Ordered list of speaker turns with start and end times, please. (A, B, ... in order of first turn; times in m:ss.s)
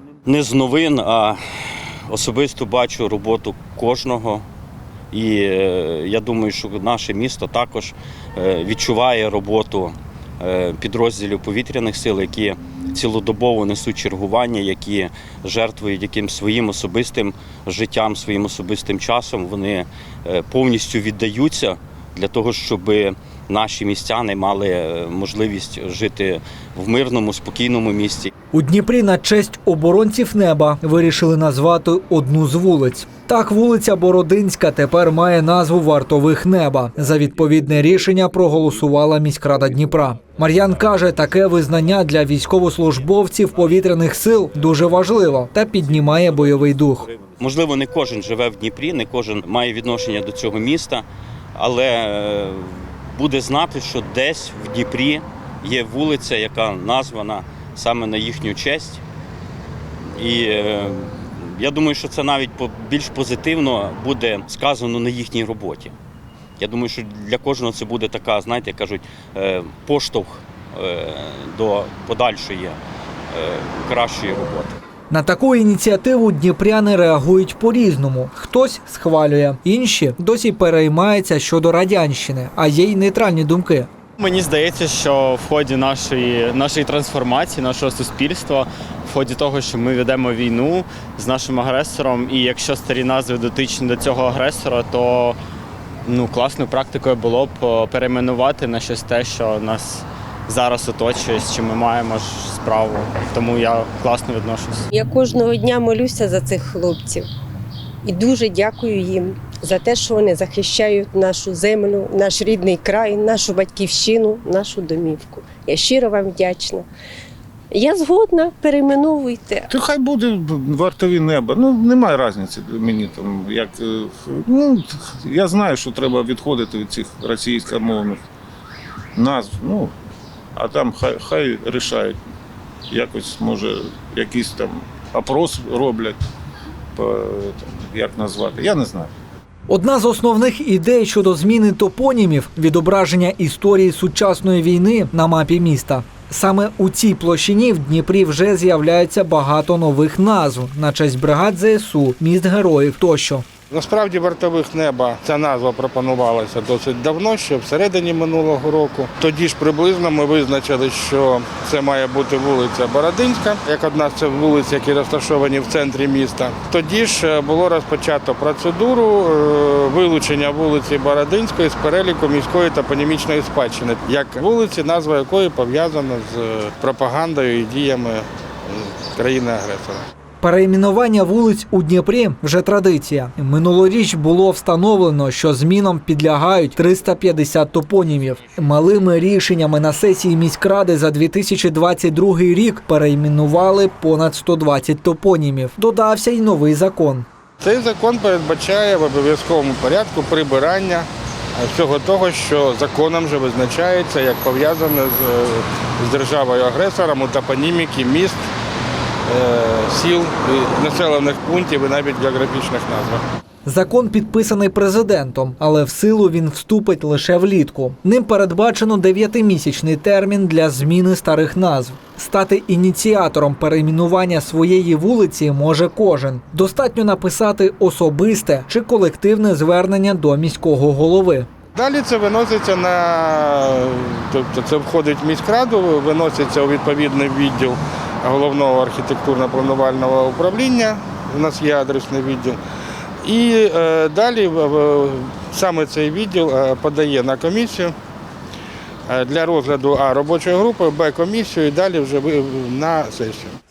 0:00.2-0:01.4 A
0:02.1-0:04.4 A
0:05.1-0:28.3 A
0:28.5-0:47.1 B
0:47.4-0:51.0 A
0:51.6-0:59.0 A
1:00.1-1:05.9 A
1:06.6-1:12.8 A
1:13.3-1:14.8 A
1:15.1-1:23.9 B
1:24.2-1:35.4 C
1:36.0-1:44.9 C
1:44.9-1:47.3 D
1:48.0-1:56.8 D
1:57.7-1:59.7 D
1:59.7-2:08.2 E
2:09.2-2:09.9 E
2:10.5-2:12.2 E
2:12.9-2:16.2 E
2:17.0-2:19.1 E
2:19.7-2:33.4 B
2:33.7-3:00.1 F
3:00.4-3:17.2 B
3:17.6-3:28.4 F
3:29.3-3:33.2 F
3:33.6-3:51.5 B
3:51.7-4:02.6 F
4:03.2-4:07.9 F
4:09.1-4:13.6 F